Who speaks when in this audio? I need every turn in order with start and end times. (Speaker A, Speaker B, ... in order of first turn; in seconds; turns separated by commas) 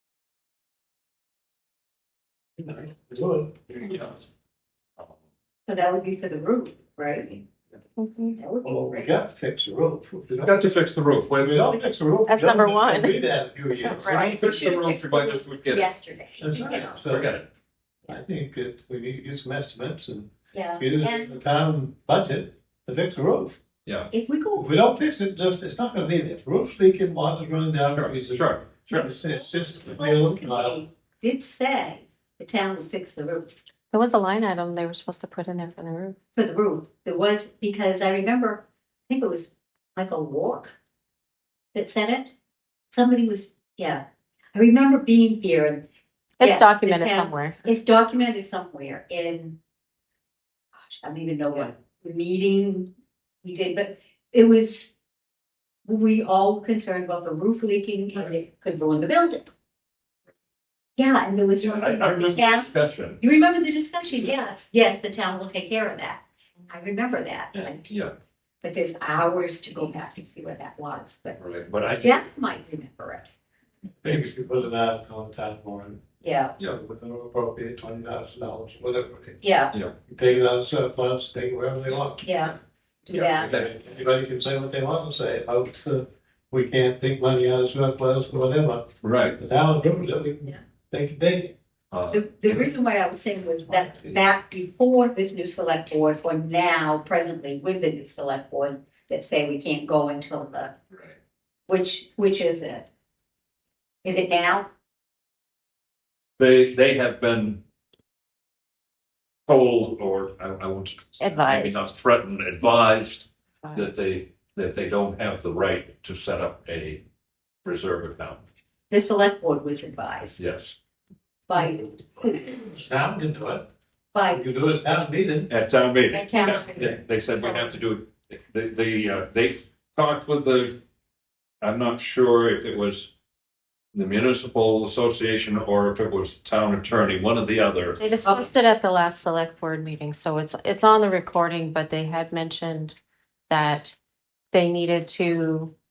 Speaker A: 2.6-3.7, Speaker B: 3.7-4.2, Speaker C: 5.7-7.5, Speaker D: 8.0-8.4, Speaker C: 8.3-9.1, Speaker A: 8.6-10.7, Speaker B: 10.4-11.7, Speaker A: 11.3-14.2, Speaker D: 12.3-13.2, Speaker D: 13.7-14.7, Speaker B: 14.0-15.9, Speaker C: 14.0-17.1, Speaker A: 16.4-17.3, Speaker B: 17.1-17.4, Speaker A: 18.1-23.6, Speaker C: 20.5-21.4, Speaker B: 23.8-24.1, Speaker C: 24.1-24.7, Speaker A: 24.6-30.8, Speaker B: 27.9-29.0, Speaker C: 28.9-33.5, Speaker D: 33.9-36.1, Speaker C: 36.3-40.8, Speaker C: 41.7-42.3, Speaker C: 42.9-45.8, Speaker D: 46.4-47.6, Speaker C: 46.4-49.6, Speaker C: 50.8-52.9, Speaker C: 53.4-55.0, Speaker C: 55.9-59.5, Speaker C: 61.0-67.8, Speaker B: 61.6-63.2, Speaker B: 67.5-68.1, Speaker C: 68.6-73.3, Speaker B: 71.4-72.2, Speaker A: 74.0-76.0, Speaker C: 76.2-76.6, Speaker A: 76.6-79.4, Speaker C: 79.4-79.7, Speaker A: 80.0-82.3, Speaker C: 82.2-83.5, Speaker B: 83.1-83.7, Speaker A: 83.1-91.5, Speaker B: 89.0-89.4, Speaker B: 91.9-92.3, Speaker C: 92.1-100.7, Speaker B: 93.9-94.2, Speaker C: 101.7-102.9, Speaker C: 104.0-104.7, Speaker B: 106.4-107.6, Speaker B: 109.5-117.0, Speaker D: 111.2-111.9, Speaker D: 113.6-114.0, Speaker B: 117.6-118.4, Speaker C: 118.9-120.4, Speaker B: 120.4-120.8, Speaker C: 121.5-122.5, Speaker A: 122.3-123.7, Speaker C: 124.1-124.4, Speaker A: 124.3-125.5, Speaker B: 125.5-130.8, Speaker C: 126.1-127.7, Speaker B: 131.6-133.1, Speaker B: 133.9-138.0, Speaker D: 138.0-143.0, Speaker C: 138.2-138.5, Speaker D: 143.5-143.9, Speaker D: 144.5-145.7